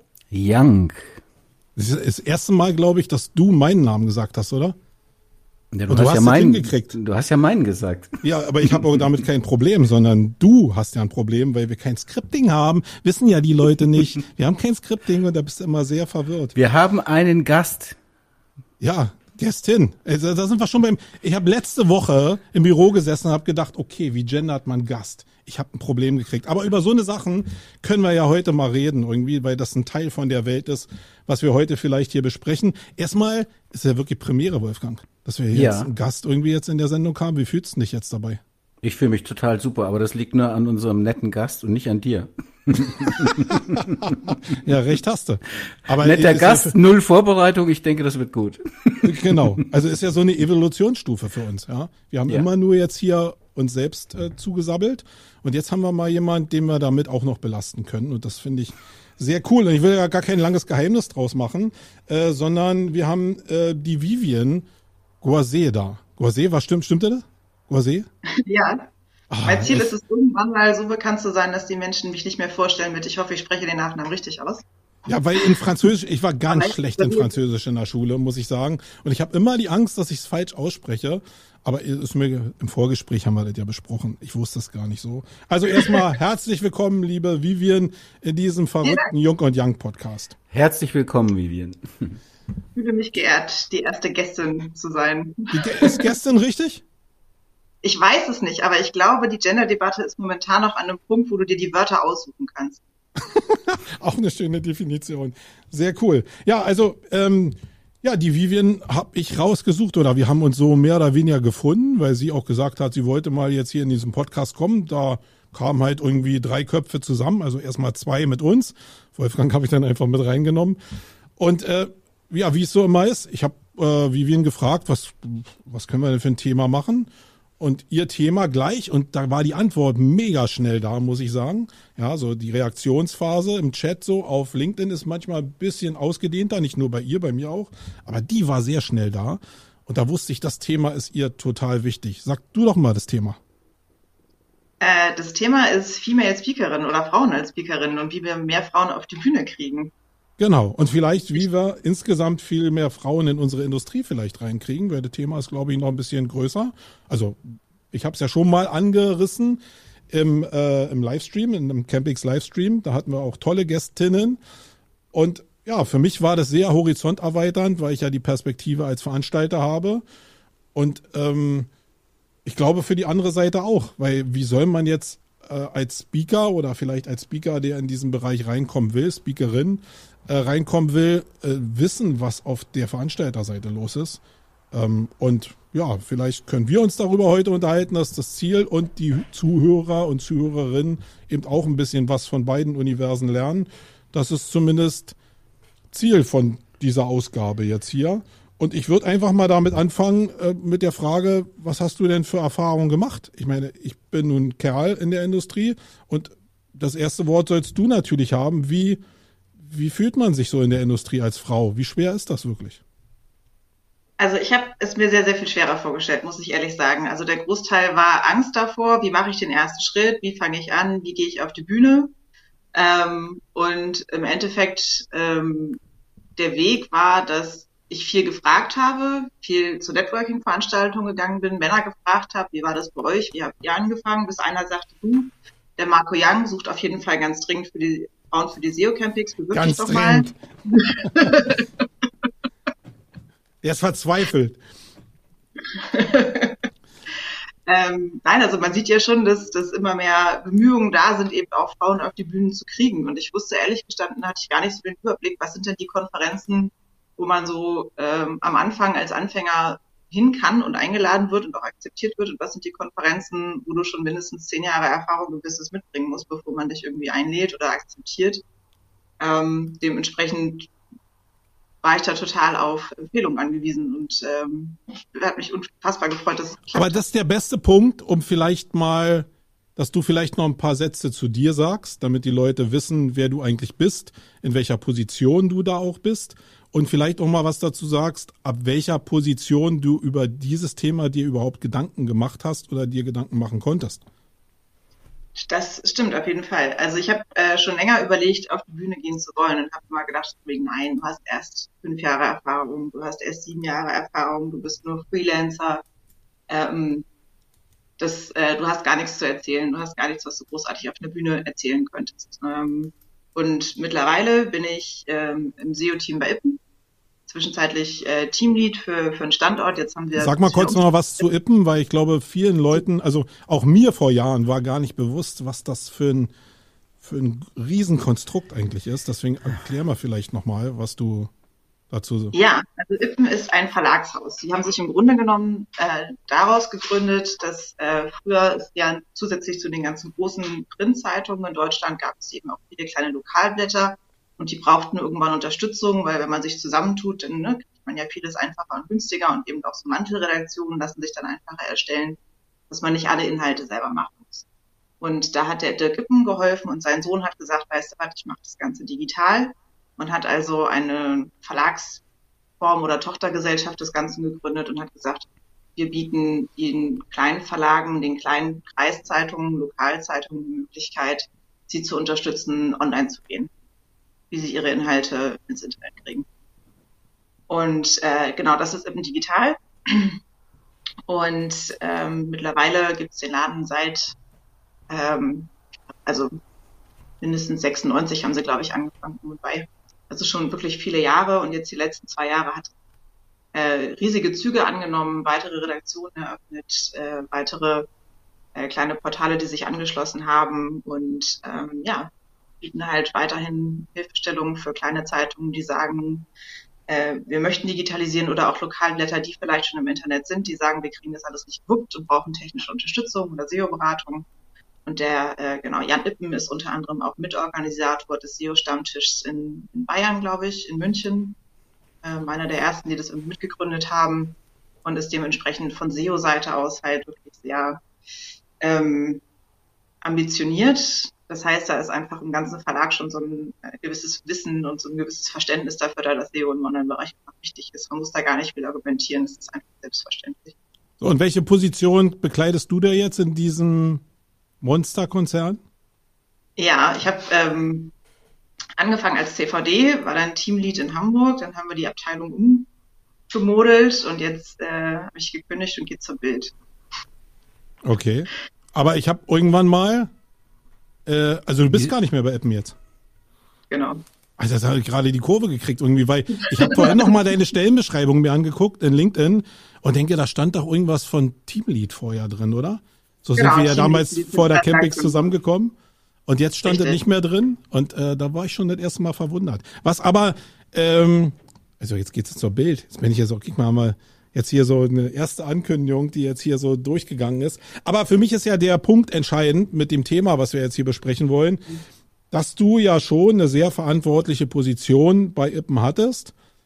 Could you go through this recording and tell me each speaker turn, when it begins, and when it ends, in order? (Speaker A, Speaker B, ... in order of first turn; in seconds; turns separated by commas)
Speaker A: 0.3-1.2, Speaker B: 1.8-4.8, Speaker A: 5.7-9.0, Speaker B: 5.9-6.9, Speaker B: 8.2-16.5, Speaker A: 16.6-18.0, Speaker B: 18.8-38.4, Speaker A: 35.5-35.9, Speaker A: 38.8-44.4, Speaker B: 43.8-46.8, Speaker A: 46.0-49.6, Speaker B: 49.0-64.7, Speaker B: 65.2-68.1, Speaker C: 68.3-68.9, Speaker B: 69.3-69.9, Speaker C: 69.4-74.6, Speaker B: 75.1-90.3, Speaker C: 76.5-77.3, Speaker C: 88.8-89.1, Speaker A: 90.5-92.2, Speaker C: 92.8-96.0, Speaker B: 95.5-96.8, Speaker C: 97.8-102.8, Speaker B: 103.3-120.8, Speaker B: 121.4-143.4, Speaker C: 144.8-149.9, Speaker B: 150.4-164.4, Speaker B: 165.1-170.0, Speaker B: 170.8-171.7, Speaker B: 172.4-184.2, Speaker B: 184.7-195.2, Speaker B: 195.9-209.0, Speaker B: 209.6-212.8, Speaker C: 214.2-222.1, Speaker C: 222.7-225.8, Speaker C: 226.4-241.7, Speaker B: 239.5-240.3, Speaker B: 241.0-241.3, Speaker B: 243.6-244.6, Speaker C: 245.7-246.6, Speaker C: 247.7-268.4, Speaker C: 269.2-270.7, Speaker C: 271.8-277.0, Speaker B: 276.7-294.0, Speaker C: 295.4-305.8, Speaker C: 306.5-307.1, Speaker C: 308.0-316.6, Speaker C: 317.3-321.2, Speaker B: 320.2-326.3, Speaker B: 327.0-331.3, Speaker B: 331.9-332.3, Speaker C: 332.3-352.2, Speaker C: 352.7-354.4, Speaker C: 355.0-362.0, Speaker C: 362.6-373.5, Speaker C: 374.3-376.3, Speaker C: 377.5-380.2, Speaker C: 381.1-384.2, Speaker C: 384.9-385.5, Speaker C: 386.1-386.3, Speaker C: 387.2-392.7, Speaker C: 393.5-397.9, Speaker C: 398.6-402.1, Speaker C: 402.6-406.3, Speaker C: 406.9-414.3, Speaker C: 414.9-421.4, Speaker C: 422.0-427.8, Speaker C: 428.6-429.2, Speaker C: 430.0-440.6, Speaker B: 441.0-444.0, Speaker B: 444.6-445.6, Speaker C: 446.6-447.9, Speaker C: 448.8-452.7, Speaker C: 453.3-456.5, Speaker B: 457.8-460.1, Speaker B: 461.1-462.8, Speaker C: 463.7-464.0, Speaker B: 464.4-475.7, Speaker C: 466.6-467.1, Speaker C: 473.4-475.3, Speaker B: 476.3-491.6, Speaker C: 476.6-477.0, Speaker B: 492.3-496.3